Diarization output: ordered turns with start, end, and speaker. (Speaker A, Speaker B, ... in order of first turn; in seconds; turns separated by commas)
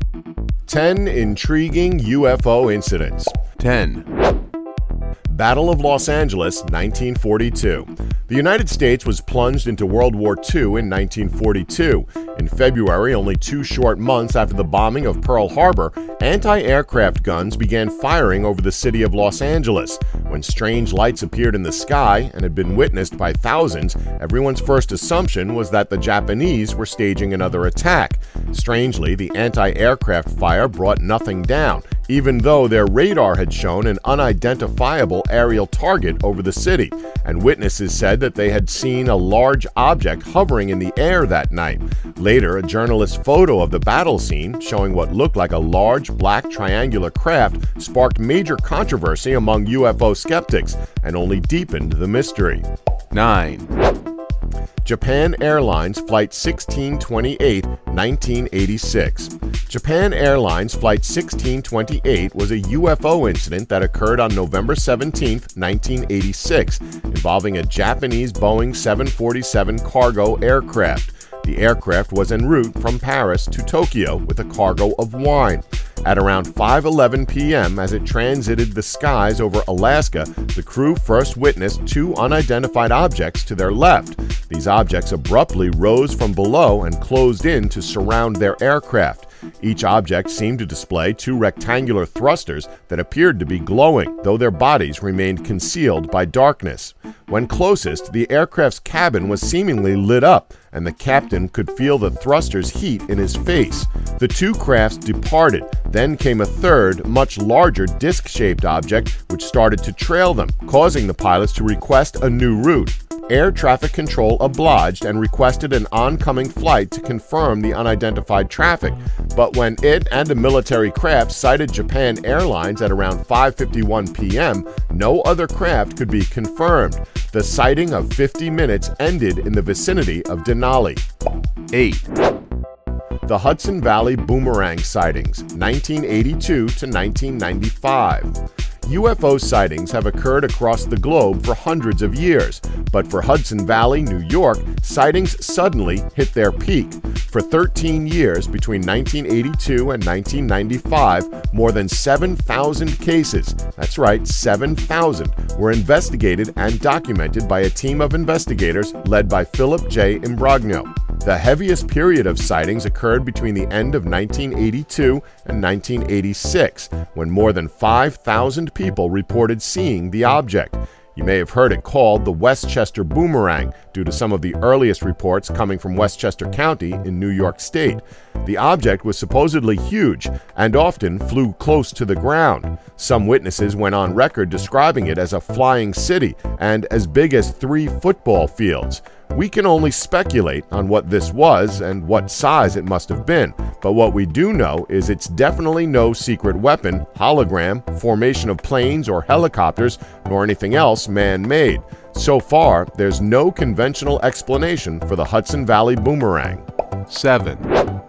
Speaker A: 0.7-3.3, Speaker B: 3.6-4.1, Speaker A: 5.3-52.6, Speaker B: 53.1-53.7, Speaker A: 54.8-131.0, Speaker B: 131.7-132.1, Speaker A: 133.2-206.6, Speaker B: 207.1-207.7